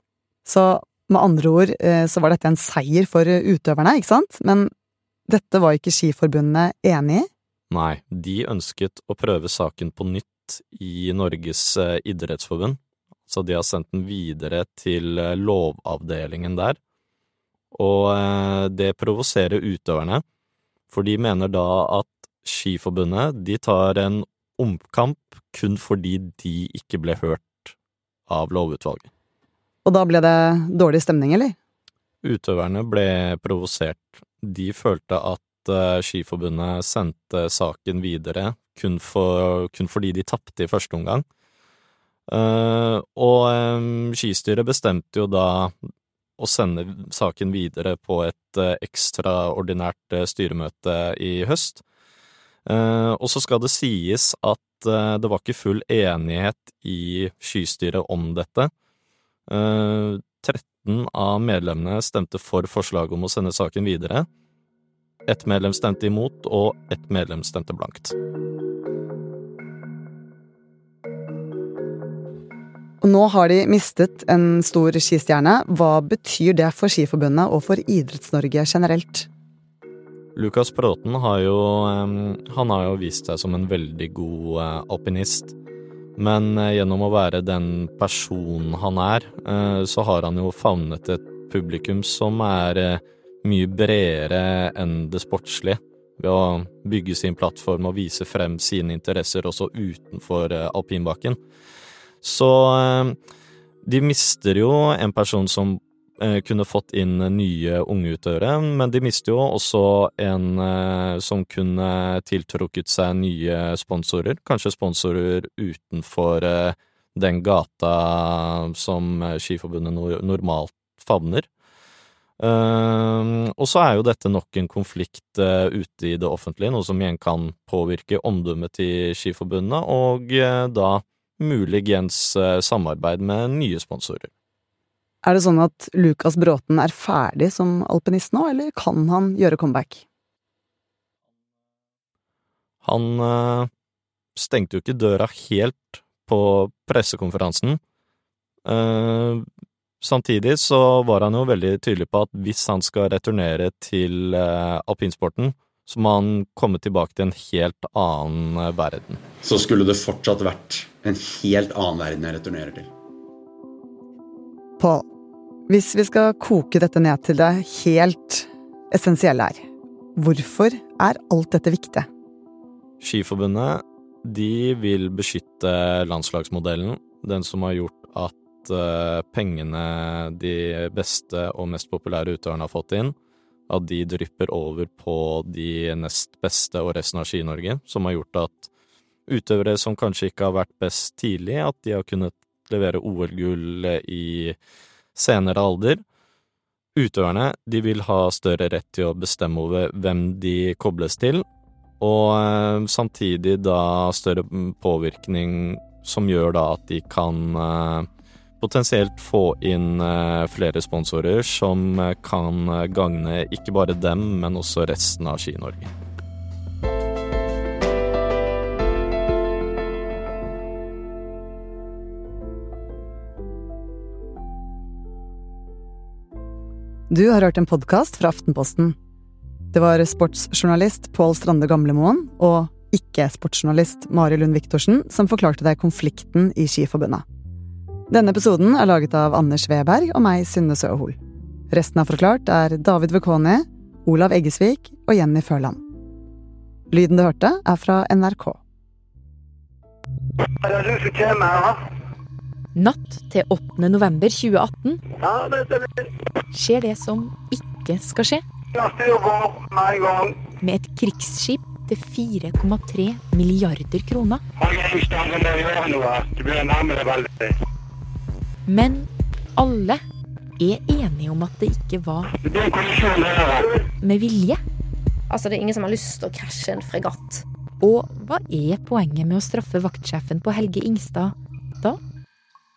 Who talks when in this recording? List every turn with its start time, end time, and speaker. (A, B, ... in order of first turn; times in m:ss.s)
0:00.4-0:04.7 A
0:05.3-0:07.3 A
0:07.7-0:16.8 B
0:17.7-0:20.2 B
0:20.9-0:27.8 B
0:28.3-0:29.1 B
0:29.8-0:31.6 A
0:32.2-0:41.2 B
0:42.3-0:45.8 B
0:46.4-0:51.8 B
0:52.7-0:58.7 B
0:59.5-1:04.3 B
1:05.3-1:08.2 B
1:13.0-1:19.3 A
1:20.4-1:25.6 B
1:26.2-1:41.4 B
1:42.2-1:43.2 B
1:43.8-2:01.5 B
2:02.4-2:14.3 B
2:15.2-2:20.0 A
2:22.8-2:23.7 B
2:24.4-2:27.8 B
2:28.7-2:29.4 B
2:30.0-2:39.2 B
2:39.4-2:42.9 C
2:44.8-2:45.1 A
2:45.7-2:49.6 A
2:50.2-2:52.1 A
2:53.0-3:03.2 B
3:03.7-3:08.7 B
3:09.3-3:14.6 B
3:15.2-3:16.0 B
3:17.0-3:21.4 B
3:22.0-3:28.1 B
3:28.6-3:35.9 B
3:47.1-3:49.0 A
3:49.7-3:57.2 A
3:58.1-4:01.2 A
4:01.7-4:05.8 A
4:06.9-4:08.6 A
4:10.6-4:11.8 D
4:12.8-4:15.0 E
4:15.2-4:15.9 D
4:16.5-4:18.4 E
4:18.7-4:20.4 D
4:20.6-4:24.4 E
4:24.6-4:27.6 D
4:28.7-4:30.0 E
4:30.6-4:32.3 E
4:32.4-4:33.8 D
4:33.9-4:34.6 E
4:35.3-4:37.4 F
4:37.8-4:42.0 E